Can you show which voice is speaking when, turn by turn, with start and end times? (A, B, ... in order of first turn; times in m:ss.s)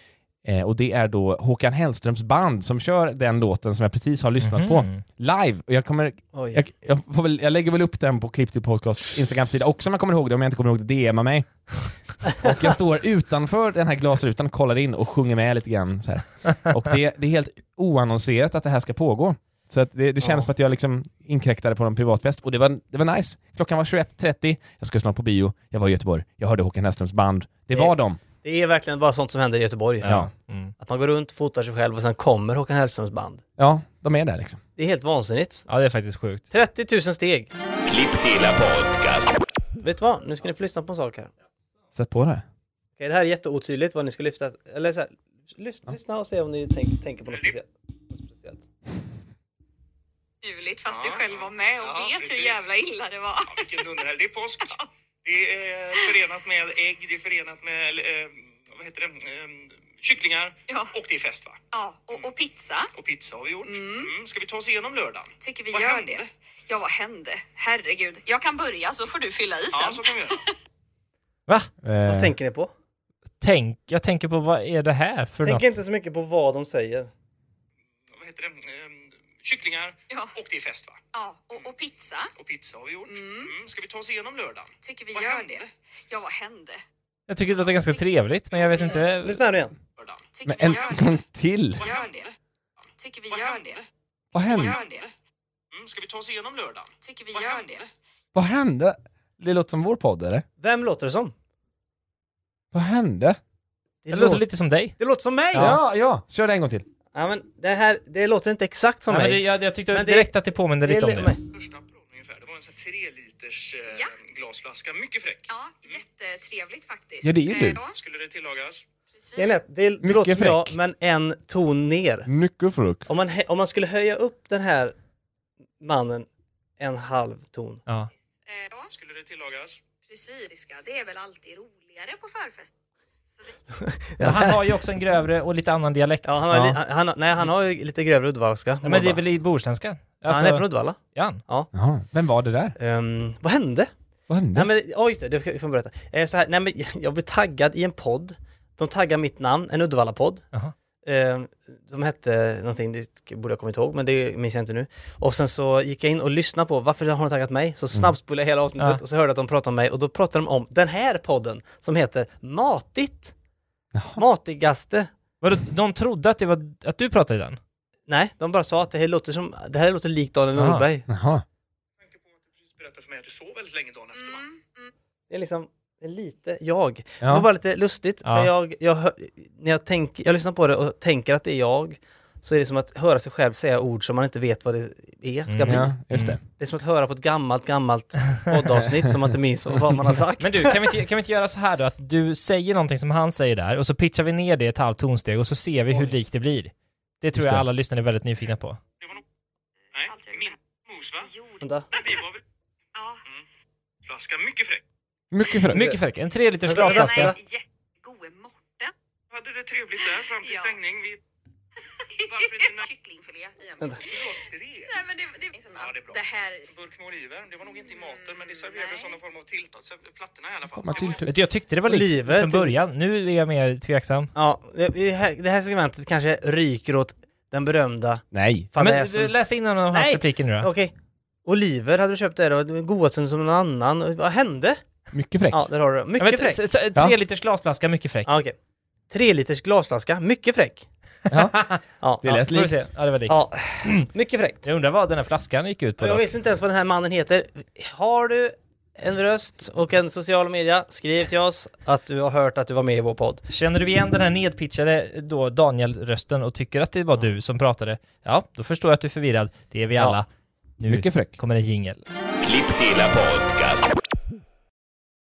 0:00.4-0:28.2 A
0:04.4-0:05.0 B
0:06.3-0:06.6 C
0:20.2-0:20.5 C
0:27.7-0:30.2 C
0:30.0-0:30.7 B
0:30.0-0:30.3 A
0:30.8-0:33.4 C
0:33.6-0:34.6 A
0:34.8-0:35.6 C
0:35.7-0:36.5 B
0:36.5-0:37.5 C
0:37.8-0:39.4 D
0:39.8-0:41.3 C
0:41.9-0:42.4 A
0:43.0-0:48.6 C
0:47.3-0:47.6 E
0:50.4-0:53.9 F
0:50.8-0:52.7 E
0:53.5-1:01.6 E
1:01.7-1:02.9 F
1:02.9-1:06.3 E
1:03.6-1:04.1 F
1:05.4-1:10.4 F
1:09.7-1:10.4 E
1:11.8-1:12.4 A
1:12.0-1:12.7 C
1:13.4-1:15.6 B
1:15.4-1:17.1 C
1:18.2-1:21.0 E
1:21.1-1:22.3 F
1:22.4-1:25.7 E
1:23.1-1:23.5 F
1:24.8-1:26.8 F
1:27.3-1:29.4 B
1:28.6-1:29.0 E
1:29.2-1:29.7 C
1:30.0-1:30.8 E
1:30.3-1:31.2 F
1:30.5-1:31.8 A
1:31.8-1:32.3 E
1:31.8-1:32.3 F
1:33.0-1:33.8 F
1:33.3-1:33.8 E
1:34.3-1:34.8 A
1:34.5-1:35.0 E
1:34.5-1:35.1 F
1:35.7-1:37.8 E
1:37.0-1:37.8 F
1:38.3-1:40.4 A
1:40.6-1:41.3 C
1:42.7-1:43.4 A
1:44.0-1:44.4 C
1:44.1-1:45.0 B
1:45.0-1:45.8 C
1:45.5-1:45.8 B
1:45.5-1:46.8 A
1:47.1-1:51.4 C
1:49.1-1:51.3 B
1:51.5-1:56.0 E
1:53.9-1:54.1 F
1:55.5-1:57.9 F
1:57.2-1:57.8 A
1:57.9-1:58.8 E
1:59.1-1:59.6 F
1:59.4-2:02.3 C
2:00.0-2:00.8 A
2:02.2-2:03.1 A
2:03.1-2:04.9 C
2:05.8-2:06.3 C
2:06.8-2:07.8 C
2:08.5-2:08.9 F
2:08.9-2:09.8 E
2:10.1-2:12.7 F
2:13.8-2:14.6 C
2:14.2-2:16.4 B
2:16.2-2:19.2 C
2:16.5-2:16.8 A
2:18.8-2:21.4 B
2:20.2-2:21.7 C
2:21.7-2:22.8 A
2:22.8-2:23.9 C
2:24.3-2:24.7 A
2:24.5-2:30.4 C
2:31.0-2:43.3 C
2:43.9-2:44.2 A
2:44.2-2:45.1 C
2:45.4-2:47.6 B
2:48.1-2:51.1 C
2:50.5-2:50.8 B
2:51.1-2:51.4 A
2:52.0-2:54.5 E
2:54.1-2:54.9 F
2:55.3-3:05.9 C
2:57.2-2:57.5 A
2:58.2-2:58.5 B
3:05.5-3:06.4 B
3:05.6-3:06.4 A
3:06.6-3:10.9 C
3:10.4-3:18.8 B
3:17.3-3:17.6 A
3:19.9-3:21.3 E
3:20.0-3:20.5 F
3:21.2-3:22.1 F
3:21.6-3:21.9 C
3:21.9-3:22.4 E
3:24.0-3:24.8 E
3:25.3-3:25.9 A
3:25.7-3:27.3 B
3:26.6-3:27.4 C
3:26.7-3:28.9 F
3:29.3-3:31.2 E
3:30.1-3:30.8 F
3:32.1-3:36.6 F
3:32.3-3:32.8 E
3:34.0-3:35.0 E
3:35.7-3:41.2 E
3:37.9-3:39.1 F
3:40.7-3:41.3 A
3:41.2-3:44.3 B
3:41.8-3:42.8 C
3:44.3-3:49.3 C
3:48.3-3:48.7 A
3:48.8-3:50.7 B
3:49.9-3:50.9 C
3:51.4-3:54.8 C
3:55.1-3:55.7 A
3:55.5-3:56.6 C
3:56.2-3:58.3 B
3:58.2-3:58.5 C
3:59.1-4:00.8 C
4:01.3-4:01.7 A
4:01.3-4:04.0 B
4:02.2-4:02.8 A
4:03.3-4:04.6 C
4:04.6-4:06.2 B
4:06.0-4:13.4 C
4:13.5-4:20.3 B
4:20.8-4:22.0 B
4:20.8-4:21.4 A
4:22.4-4:23.9 D